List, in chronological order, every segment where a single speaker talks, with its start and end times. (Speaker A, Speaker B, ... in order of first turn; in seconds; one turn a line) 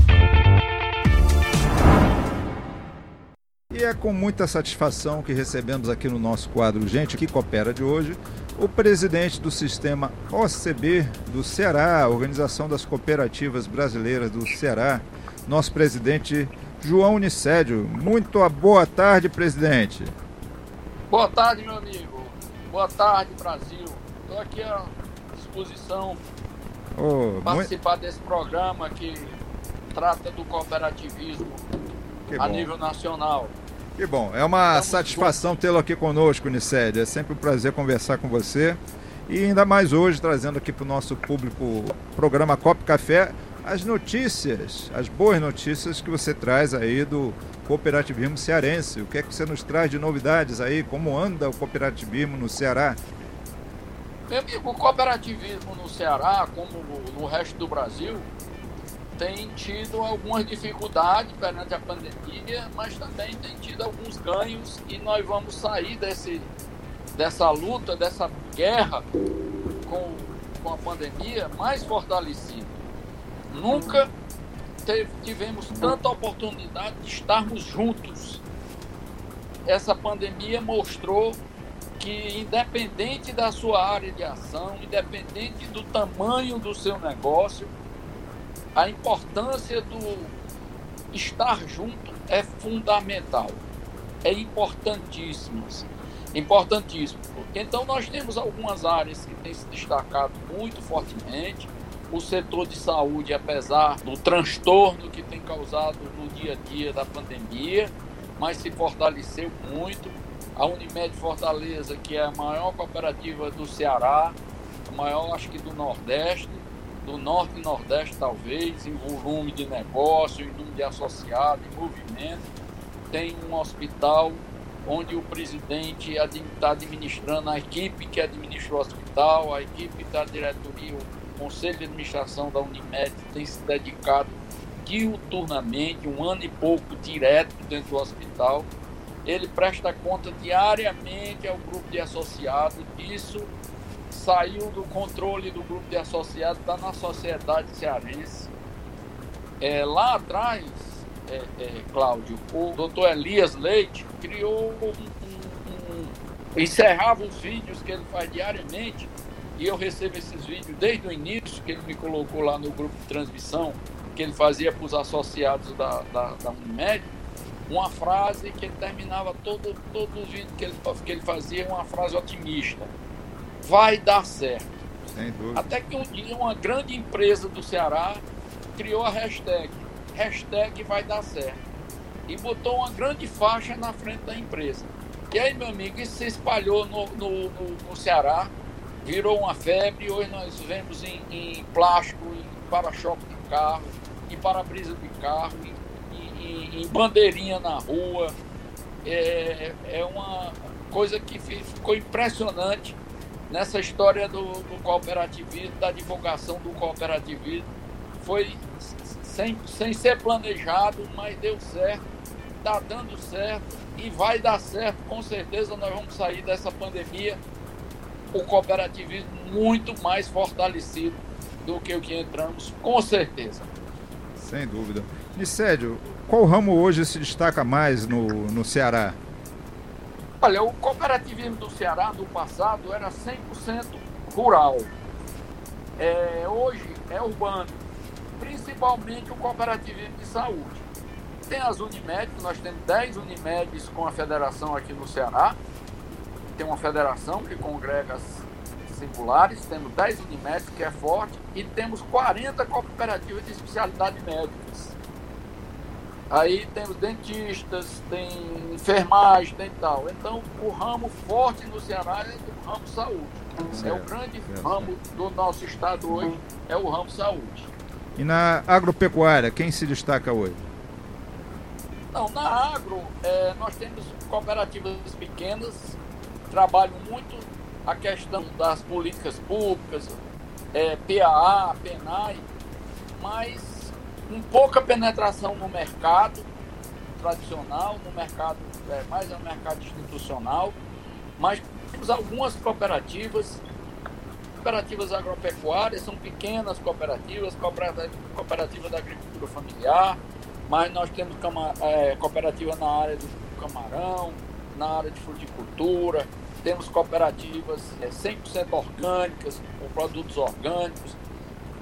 Speaker A: 3.7-20.1
Speaker B: 21.1-26.2
Speaker A: 26.9-27.7
Speaker B: 27.4-29.4
Speaker B: 29.9-31.7
Speaker A: 32.3-32.7
Speaker B: 32.4-33.5
Speaker A: 34.0-53.0
Speaker B: 34.7-35.4
Speaker B: 54.3-58.3
Speaker B: 59.2-66.5
Speaker B: 67.2-69.1
Speaker B: 69.8-72.8
Speaker B: 73.5-74.1
Speaker B: 74.8-78.4
Speaker B: 79.7-81.4
Speaker B: 82.0-87.7
Speaker B: 88.8-90.3
Speaker B: 91.1-93.6
Speaker B: 94.2-122.5
Speaker B: 123.1-138.7
Speaker B: 139.2-143.5
Speaker B: 144.1-148.5
Speaker B: 149.6-167.1
Speaker B: 167.7-172.9
Speaker B: 173.6-174.7
Speaker A: 175.1-175.7
Speaker B: 175.6-178.2
Speaker B: 178.8-181.6
Speaker B: 182.3-198.4
Speaker B: 199.0-203.0
Speaker B: 203.5-212.0
Speaker B: 212.6-217.4
Speaker B: 218.3-223.7
Speaker A: 224.4-229.2
Speaker B: 230.4-234.9
Speaker B: 236.0-237.8
Speaker B: 238.4-240.9
Speaker B: 241.5-245.6
Speaker B: 246.6-255.0
Speaker B: 256.3-267.7
Speaker A: 263.7-264.9
Speaker A: 268.2-270.7
Speaker B: 272.1-276.0
Speaker B: 276.5-280.2
Speaker B: 280.7-282.5
Speaker B: 283.2-286.5
Speaker B: 287.2-290.8
Speaker B: 291.4-293.6
Speaker B: 294.6-311.2